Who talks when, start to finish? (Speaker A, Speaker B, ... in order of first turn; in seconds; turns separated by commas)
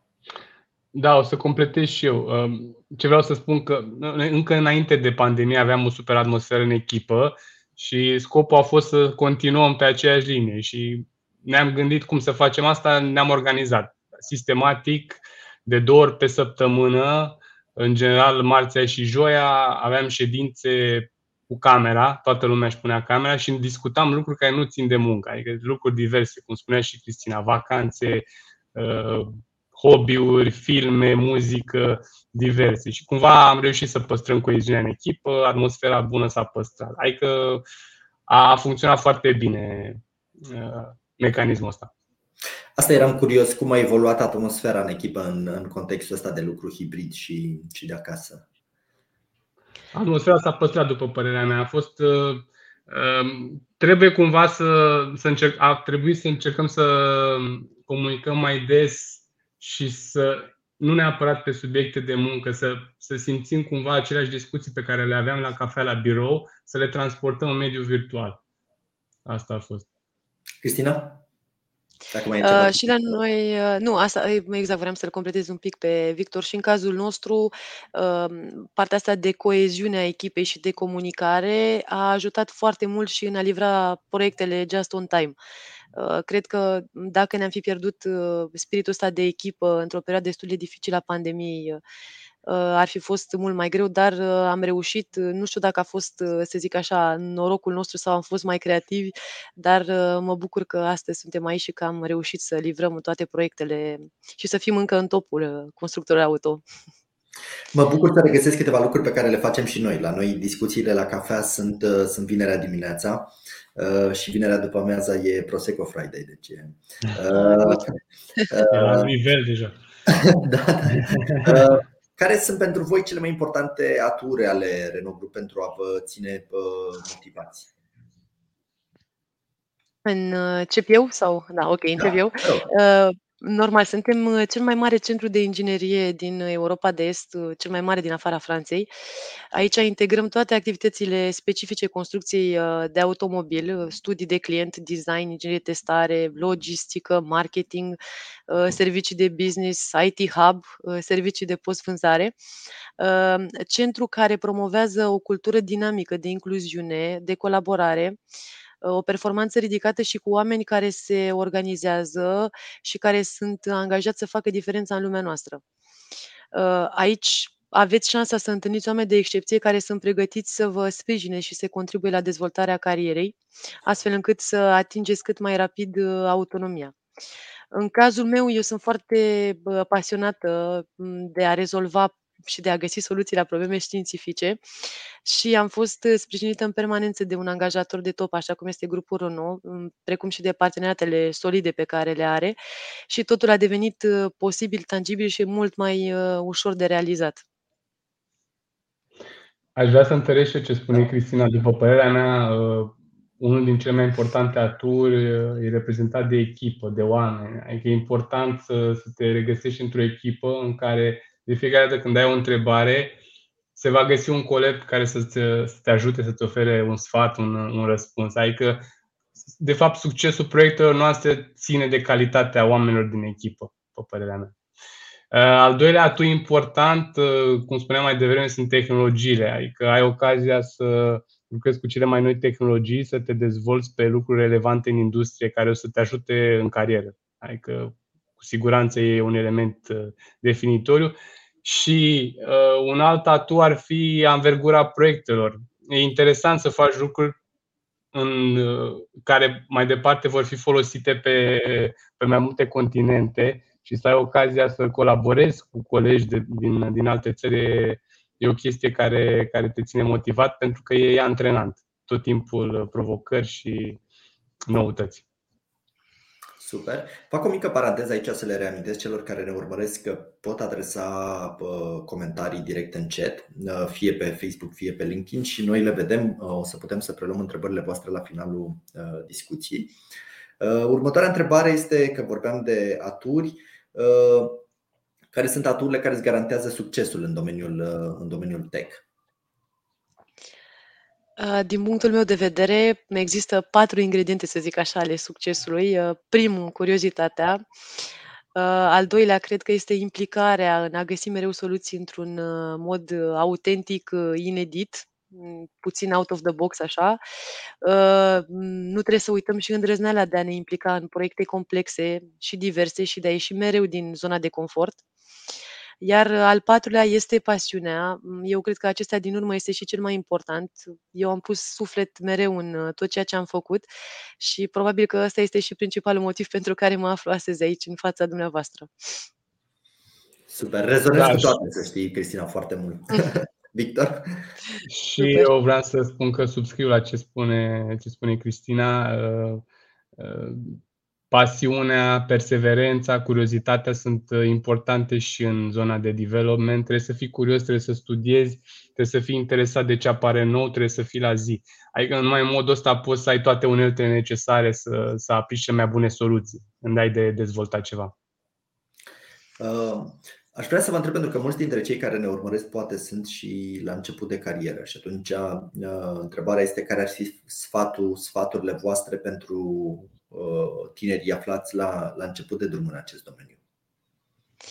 Speaker A: 0.9-37.6, Speaker A: 38.3-41.9, Speaker B: 42.8-48.4, Speaker A: 49.9-68.4, Speaker A: 69.3-69.9, Speaker B: 70.6-71.2, Speaker B: 72.1-73.1, Speaker C: 72.4-85.4, Speaker C: 86.0-91.8, Speaker C: 92.5-106.6, Speaker B: 107.7-118.0, Speaker C: 117.3-117.8, Speaker B: 118.5-119.1, Speaker A: 118.7-119.8, Speaker B: 120.1-127.7, Speaker A: 121.0-121.7, Speaker C: 130.1-138.9, Speaker B: 132.0-132.7, Speaker C: 139.5-148.0, Speaker C: 148.5-152.3, Speaker C: 153.0-158.2, Speaker C: 158.8-165.6, Speaker C: 166.5-176.9, Speaker C: 177.7-184.6, Speaker C: 185.2-192.6, Speaker C: 193.1-197.4, Speaker A: 199.8-213.2, Speaker A: 213.8-218.9, Speaker A: 219.6-224.5, Speaker A: 225.3-247.4, Speaker A: 248.1-264.0, Speaker A: 264.7-265.2, Speaker B: 266.6-279.9, Speaker B: 280.6-284.6, Speaker B: 285.3-289.0, Speaker C: 291.4-297.6, Speaker C: 298.6-307.2, Speaker C: 307.8-315.0, Speaker C: 316.0-323.9, Speaker C: 324.4-329.2, Speaker B: 330.5-334.5, Speaker A: 331.1-331.6, Speaker A: 334.9-339.6, Speaker C: 335.2-335.5, Speaker A: 340.2-340.8, Speaker A: 341.3-358.1, Speaker B: 359.6-373.6